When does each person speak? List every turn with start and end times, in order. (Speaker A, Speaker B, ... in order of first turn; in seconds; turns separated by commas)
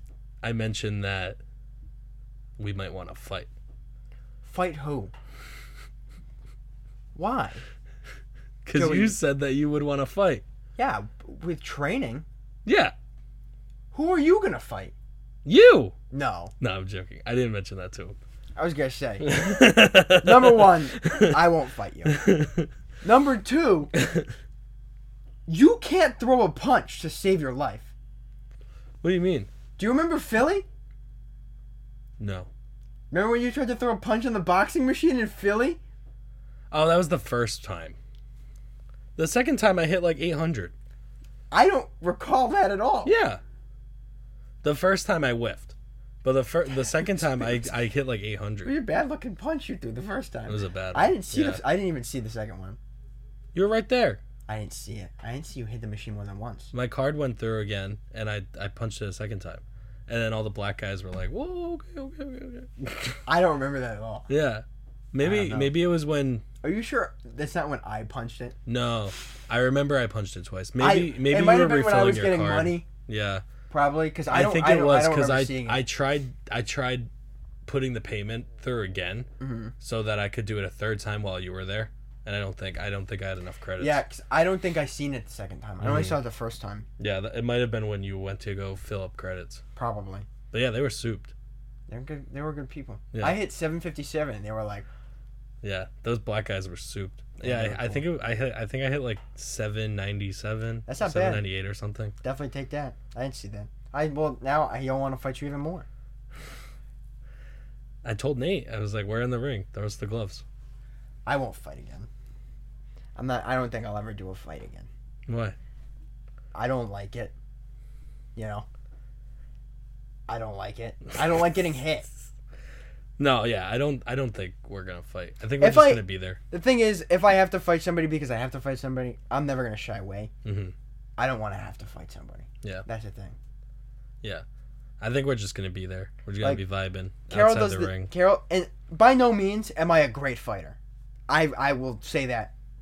Speaker A: 0.4-1.4, Speaker A: 2.6-3.5, Speaker B: 4.4-5.1, Speaker B: 7.1-7.6, Speaker A: 8.6-10.4, Speaker B: 8.7-9.2, Speaker B: 10.8-12.3, Speaker A: 12.6-12.9, Speaker B: 13.9-14.9, Speaker A: 15.4-15.9, Speaker B: 16.1-16.5, Speaker A: 16.6-18.2, Speaker B: 18.6-19.4, Speaker A: 19.2-21.4, Speaker B: 20.2-22.3, Speaker A: 22.1-22.7, Speaker B: 23.0-23.9, Speaker B: 25.5-27.9, Speaker A: 29.0-29.5, Speaker B: 29.8-30.7, Speaker A: 32.2-32.5, Speaker B: 33.1-35.8, Speaker A: 36.7-38.0, Speaker A: 39.2-40.7, Speaker B: 41.5-43.1, Speaker A: 43.0-43.4, Speaker A: 44.6-48.7, Speaker B: 46.9-47.7, Speaker B: 48.6-52.8, Speaker A: 50.5-51.6, Speaker A: 53.5-54.2, Speaker B: 54.5-56.7, Speaker A: 56.7-63.2, Speaker B: 63.3-64.3, Speaker A: 64.3-66.4, Speaker B: 65.2-65.7, Speaker B: 66.6-68.5, Speaker A: 68.7-73.4, Speaker B: 70.8-72.9, Speaker B: 73.7-75.8, Speaker A: 74.3-77.1, Speaker A: 77.7-79.3, Speaker B: 79.4-79.7, Speaker A: 79.8-84.0, Speaker B: 83.8-86.9, Speaker A: 85.8-86.2, Speaker A: 87.0-89.6, Speaker B: 89.8-90.3, Speaker A: 90.5-91.3, Speaker B: 91.9-94.9, Speaker A: 93.1-93.4, Speaker A: 95.6-102.1, Speaker B: 97.4-98.1, Speaker B: 100.9-101.4, Speaker B: 102.2-105.9, Speaker A: 108.0-110.4, Speaker B: 111.3-112.1, Speaker B: 113.2-114.9, Speaker A: 115.3-115.6, Speaker B: 116.5-117.3, Speaker B: 118.3-118.7, Speaker B: 120.3-122.1, Speaker A: 123.2-126.4, Speaker B: 125.6-130.3, Speaker A: 130.4-130.7, Speaker B: 131.2-133.4, Speaker A: 135.0-138.1, Speaker B: 137.3-140.8, Speaker B: 141.3-142.5